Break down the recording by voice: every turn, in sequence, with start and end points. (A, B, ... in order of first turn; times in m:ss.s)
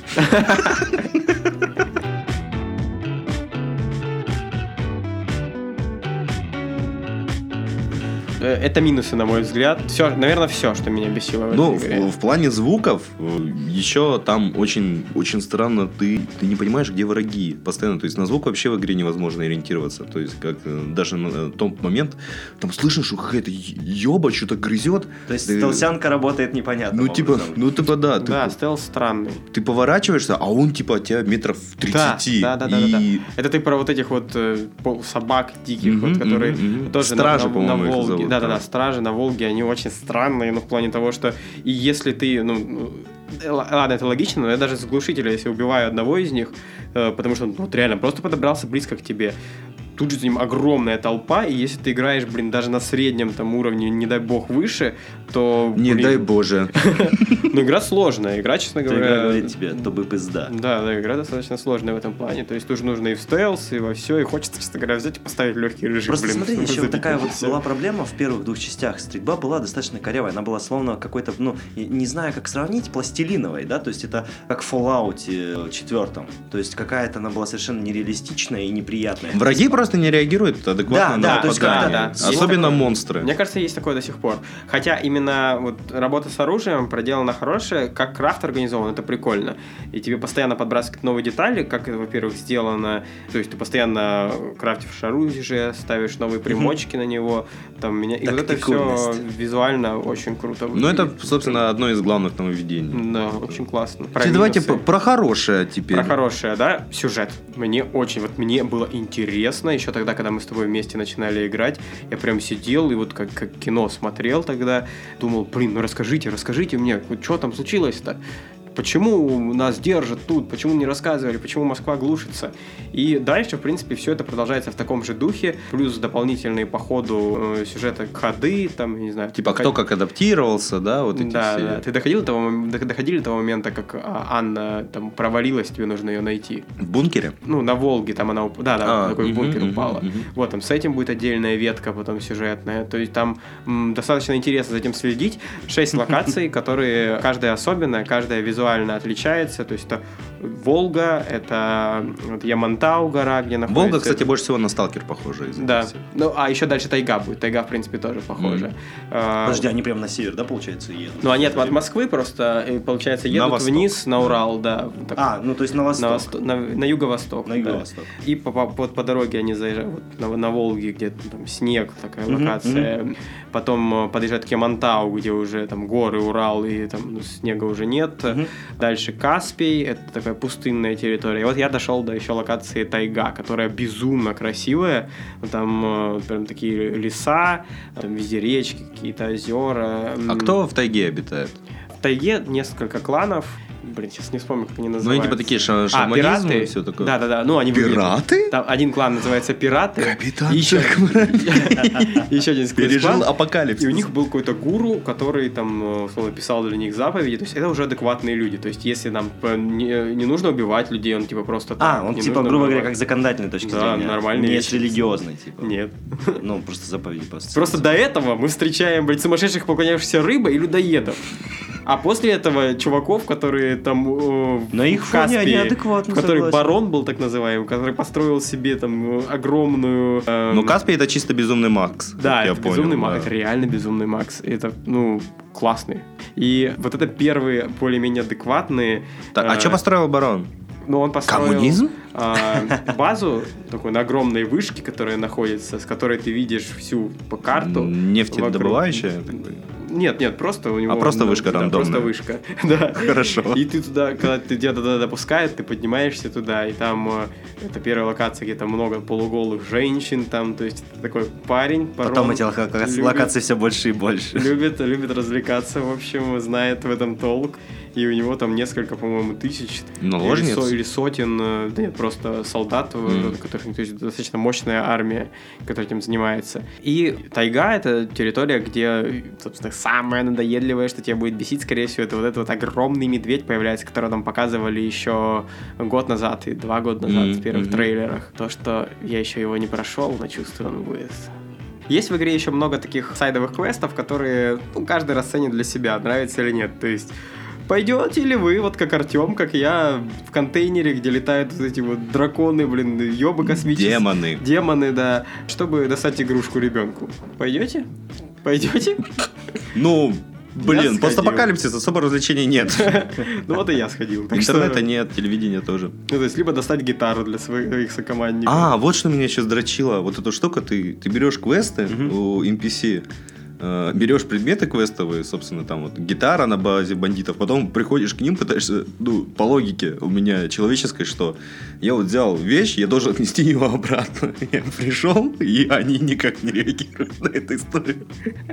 0:00.2-0:01.0 A
0:08.4-0:12.1 A
0:11.5-0:25.9 B
0:25.3-0:27.6 C
0:26.9-0:28.6 B
0:28.2-0:29.4 A
0:29.5-0:33.2 B
0:31.9-0:49.3 A
0:35.8-0:38.6 B
0:50.0-0:59.6 A
0:55.7-0:57.5 B
0:58.9-1:00.5 C
1:00.5-1:07.6 A
1:06.1-1:19.8 C
1:19.3-1:23.3 B
1:20.9-1:22.8 C
1:21.2-1:41.6 A
1:38.2-1:39.2 C
1:40.7-1:43.6 B
1:42.9-1:44.8 A
1:44.2-1:46.1 B
1:45.9-1:58.2 A
1:58.7-2:09.8 A
2:09.3-2:11.8 B
2:11.1-2:16.7 A
2:16.8-2:17.4 B
2:17.4-2:34.3 A
2:18.8-2:20.3 B
2:33.7-2:36.0 B
2:35.6-2:39.6 A
2:38.4-2:38.7 B
2:39.4-2:41.8 C
2:41.2-2:45.2 A
2:43.3-2:44.4 B
2:45.2-2:46.3 C
2:46.0-3:10.6 A
2:47.4-2:48.1 C
2:52.3-2:52.9 C
3:10.3-3:11.6 B
3:12.0-3:32.9 A
3:15.0-3:17.1 B
3:17.7-3:18.5 B
3:20.0-3:22.2 B
3:22.8-3:24.1 B
3:31.8-3:35.7 C
3:33.6-3:36.4 A
3:36.3-3:37.8 C
3:37.5-3:41.2 A
3:41.8-3:50.8 A
3:44.7-3:46.7 C
3:50.5-3:53.3 B
3:52.2-3:59.8 A
3:59.3-4:00.5 B
4:00.9-4:23.3 A
4:01.2-4:01.9 B
4:07.5-4:09.6 B
4:10.9-4:12.1 B
4:12.9-4:13.6 B
4:22.0-4:24.5 C
4:24.3-4:51.3 A
4:30.0-4:30.8 B
4:33.0-4:33.4 B
4:47.1-4:47.9 B
4:51.9-4:57.1 A
4:57.7-5:07.8 A
5:03.4-5:04.4 B
5:08.4-5:09.1 A
5:09.7-5:13.1 B
5:10.6-5:11.5 A
5:12.7-5:14.8 A
5:14.3-5:15.9 B
5:16.1-5:18.7 A
5:18.4-5:23.0 B
5:21.9-5:22.1 C
5:23.6-5:38.1 B